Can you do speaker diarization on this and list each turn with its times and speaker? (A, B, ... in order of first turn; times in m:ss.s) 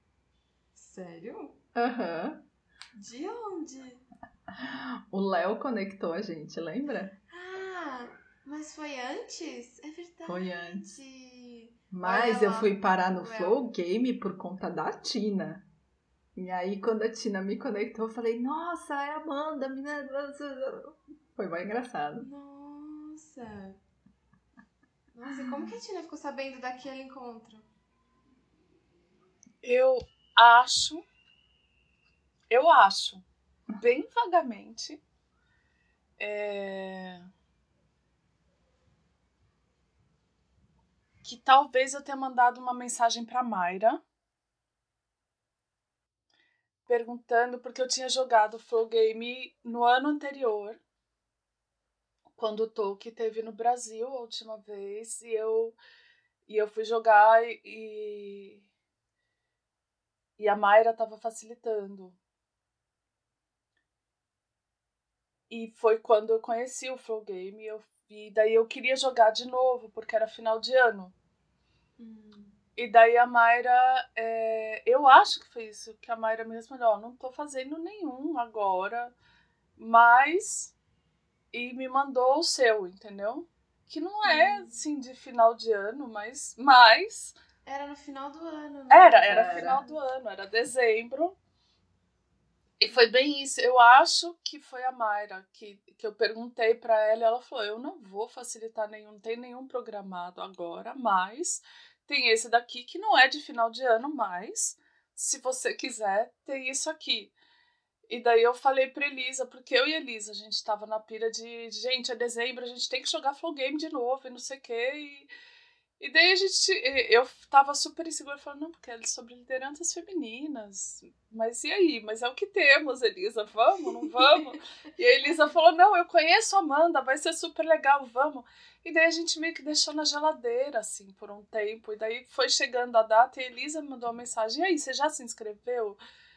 0:00.8-0:01.6 A
0:01.8-0:02.4 B
0:03.0-0:04.0 A
0:04.5-0:07.2 B
0:07.3-0:13.6 A
0:10.3-0:11.0 B
0:11.9-0:15.7 B
0:16.4-0:22.3 B
0:22.2-0:23.8 A
0:25.1-0:27.7 A
0:29.6-0:31.0 C
0:32.5-0:33.2 C
0:33.8-0:35.0 C
0:36.2-0:37.3 C
0:41.2-0:44.0 C
0:46.9-0:50.8 C
0:52.4-0:55.8 C
0:56.5-0:58.7 C
1:00.4-1:02.2 C
1:05.5-1:11.1 C
1:12.0-1:12.6 A
1:12.8-1:19.1 C
1:19.8-1:20.7 C
1:21.5-1:27.4 C
1:24.2-1:24.8 A
1:27.6-1:29.9 A
1:28.9-1:31.4 C
1:29.3-1:29.8 B
1:32.8-1:47.3 C
1:48.1-1:55.3 C
1:56.0-2:16.0 C